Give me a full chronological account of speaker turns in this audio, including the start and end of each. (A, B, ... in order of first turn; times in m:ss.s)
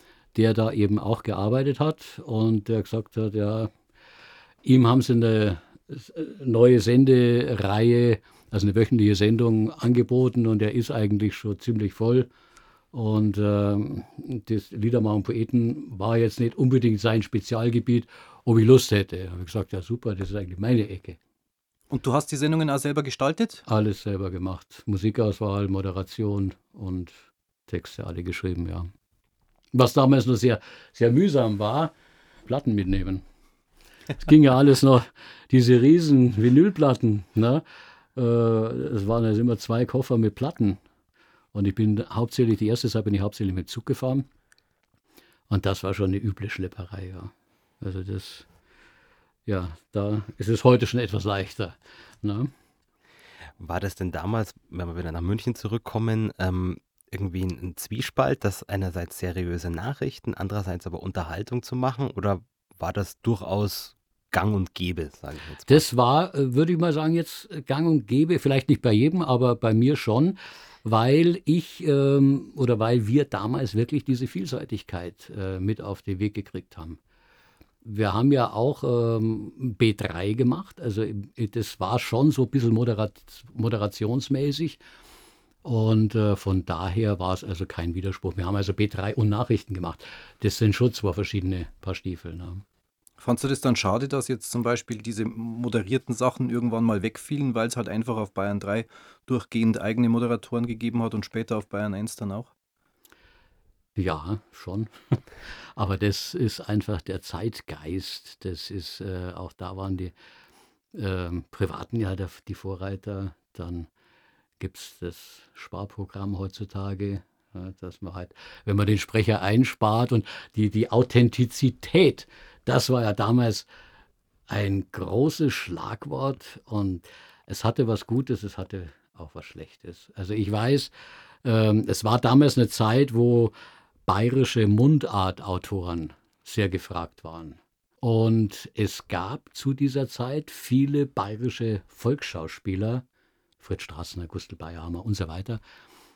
0:00.4-0:03.7 A
0:04.6-0:12.3 A
0:12.9-0:21.2 A
0:21.9-0:23.6 B
0:23.6-0:27.1 A
0:27.7-0:28.9 A
0:29.7-0:31.9 A
0:32.4-0:33.2 A
0:34.2-0:37.6 A
0:38.1-0:40.8 A
0:41.5-0:44.3 A
0:45.5-0:48.5 A
0:49.4-0:52.5 A
0:53.6-1:05.8 C
1:05.6-1:17.0 A
1:17.8-1:24.8 A
1:25.6-1:32.6 A
1:33.2-1:42.5 B
1:44.0-1:45.2 A
1:45.7-1:50.1 A
1:50.9-1:53.9 A
1:54.6-2:03.7 A
2:04.5-2:10.9 A
2:11.4-2:13.5 A
2:14.1-2:23.0 A
2:23.6-2:25.6 A